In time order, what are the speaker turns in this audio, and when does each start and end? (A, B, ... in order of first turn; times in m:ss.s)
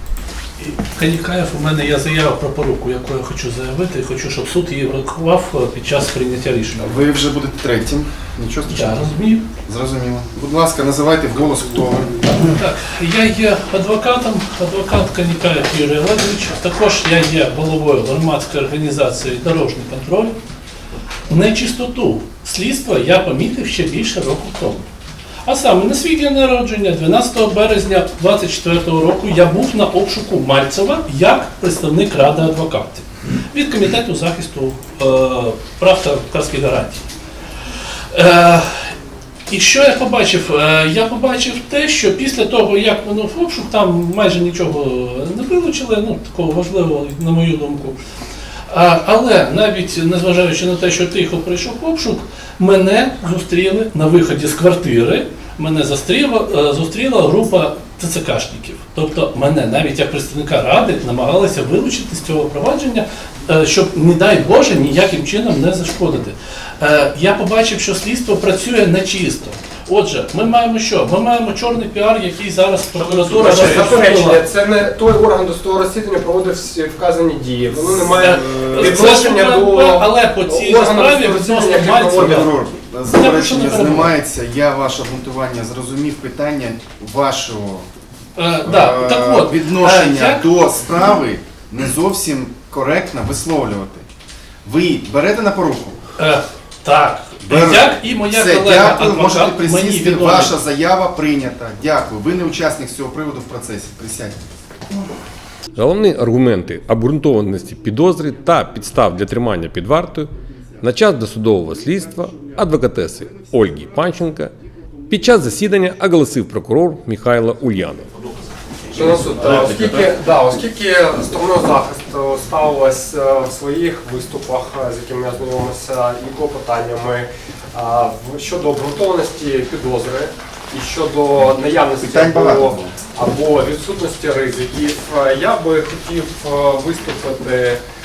0:00.6-0:07.0 A
0:06.8-0:12.5 B
0:08.7-0:09.4 A
0:12.4-0:20.4 A
0:21.3-0:24.9 A
0:25.4-0:37.0 A
0:38.1-0:39.0 A
0:39.5-0:48.0 A
0:48.7-1:14.4 A
1:13.3-1:22.4 C
1:18.0-1:19.0 B
1:18.2-1:22.5 A
1:22.1-1:27.9 B
1:23.1-1:24.1 A
1:28.4-1:30.5 A
1:28.6-1:34.1 B
1:34.6-1:36.0 B
1:36.2-1:40.5 A
1:37.4-1:44.4 B
1:45.8-1:50.3 D
1:45.9-1:46.6 B
1:47.4-1:49.3 B
1:50.4-1:56.4 B
1:50.8-1:54.5 D
1:55.1-1:58.2 D
1:58.9-2:17.8 C
1:59.2-2:00.2 D
2:12.0-2:13.0 B